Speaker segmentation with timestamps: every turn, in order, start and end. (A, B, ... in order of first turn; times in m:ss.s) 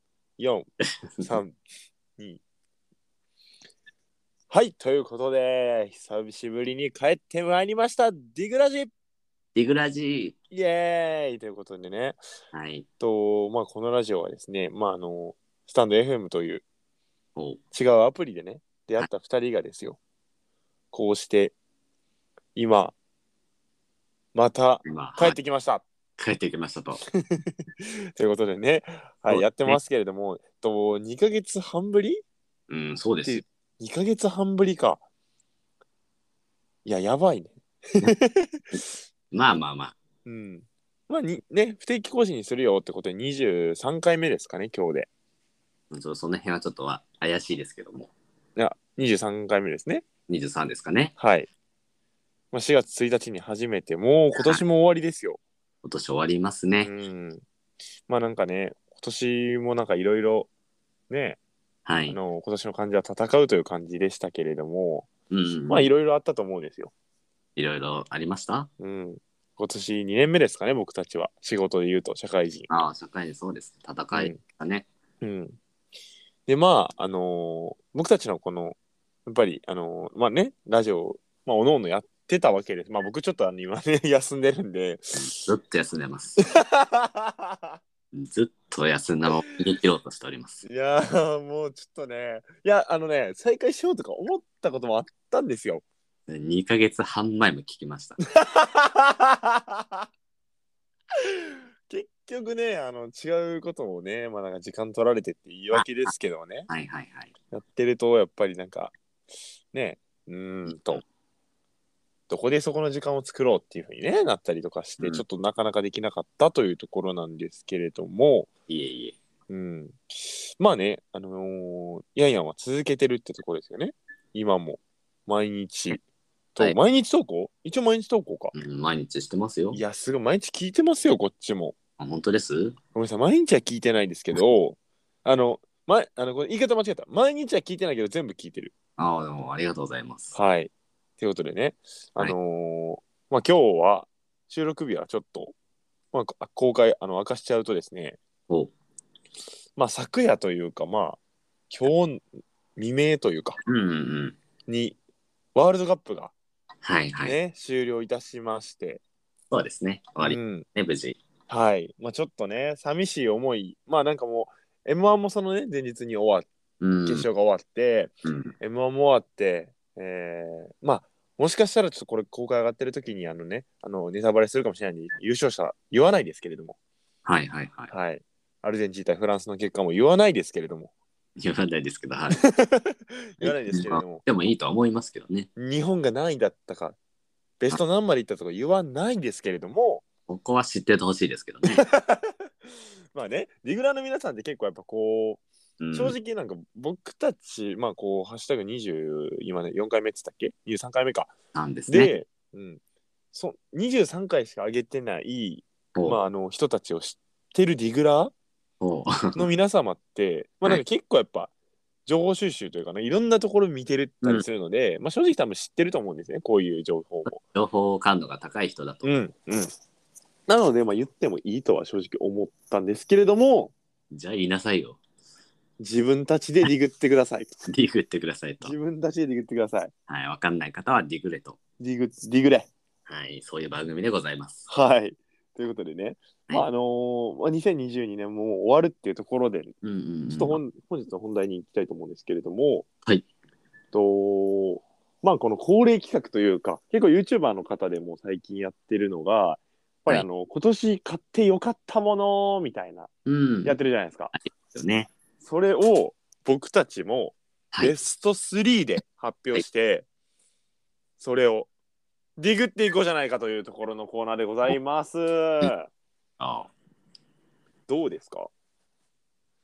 0:00.4-0:00.7 A
0:01.2-0:01.6 A
0:04.5-0:08.9 A
0:09.6-0:10.4 B
0:10.5-0:12.2 A
0:12.5-0:12.9 B
0:13.0-0:16.6 A
0:17.7-0:20.0 A
0:20.9-0:21.5 A
0:22.6-0:23.0 A
0:24.4-0:25.8 A
0:24.8-0:25.4 B
0:26.2-0:27.0 B
0:27.1-0:32.2 A
0:29.3-0:29.8 B
0:32.7-0:33.4 B
0:33.2-0:35.0 A
0:36.8-0:38.6 A
0:39.3-0:39.9 B
0:40.3-0:45.1 A
0:45.9-0:48.1 B
0:48.6-0:50.0 A
0:50.3-0:51.1 B
0:51.2-0:51.5 A
0:52.5-0:55.4 A
0:55.8-0:56.9 B
0:56.8-0:57.4 A
0:58.1-1:00.5 A
1:01.1-1:01.4 A
1:01.9-1:02.2 B
1:02.1-1:05.1 A
1:05.3-1:05.9 B
1:05.7-1:06.9 A
1:07.6-1:08.7 B
1:08.8-1:12.7 A
1:12.7-1:14.9 B
1:14.1-1:14.4 A
1:15.2-1:15.6 A
1:16.5-1:25.5 A
1:25.2-1:26.5 B
1:26.4-1:27.8 A
1:28.1-1:30.6 B
1:30.6-1:35.8 A
1:36.3-1:38.2 B
1:38.3-1:40.1 A
1:41.2-1:46.7 A
1:45.7-1:46.1 B
1:46.7-1:47.3 B
1:47.5-1:48.9 A
1:49.7-1:51.0 A
1:52.3-1:58.5 A
1:58.7-1:59.2 B
1:59.5-2:06.0 A
2:06.6-2:08.5 A
2:08.5-2:09.8 B
2:09.7-2:11.8 A
2:12.0-2:12.8 B
2:12.9-2:18.7 A
2:19.0-2:20.4 B
2:20.3-2:25.5 A
2:26.1-2:28.2 A
2:29.8-2:32.2 A
2:32.8-2:33.6 A
2:33.6-2:34.4 B
2:34.7-2:35.0 A
2:35.6-2:36.3 A
2:36.8-2:37.4 B
2:37.2-2:39.0 A
2:39.5-2:41.2 B
2:40.2-2:40.6 A
2:41.5-2:46.5 A
2:46.8-2:47.3 B
2:47.1-2:56.8 A
2:48.2-2:48.5 B
2:57.2-2:57.9 B
2:57.9-3:00.9 A
3:01.4-3:02.4 B
3:02.3-3:04.2 A
3:03.4-3:05.5 B
3:05.6-3:07.0 A
3:07.6-3:10.0 A
3:10.3-3:11.8 B
3:11.7-3:12.3 A
3:13.1-3:21.3 A
3:15.8-3:16.2 B
3:21.5-3:22.1 B
3:21.9-3:22.8 A
3:23.3-3:28.3 A
3:26.0-3:26.2 B
3:28.8-3:29.5 B
3:29.4-3:31.5 A
3:32.1-3:37.4 A
3:37.3-3:39.1 B
3:39.0-3:39.7 A
3:40.5-3:43.7 A
3:44.1-3:45.0 B
3:45.8-3:47.5 A
3:47.7-3:48.8 B
3:48.6-3:49.9 A
3:50.1-3:51.6 B
3:51.8-3:52.7 A
3:53.1-3:54.7 B
3:54.7-3:59.8 A
3:59.8-4:00.6 B
4:00.3-4:02.9 A
4:03.9-4:13.1 A
4:13.3-4:13.8 B
4:13.6-4:14.3 A
4:14.4-4:15.1 B
4:15.4-4:20.1 A
4:21.2-4:21.7 A
4:22.4-4:25.9 A
4:26.4-4:26.7 B
4:27.9-4:28.5 A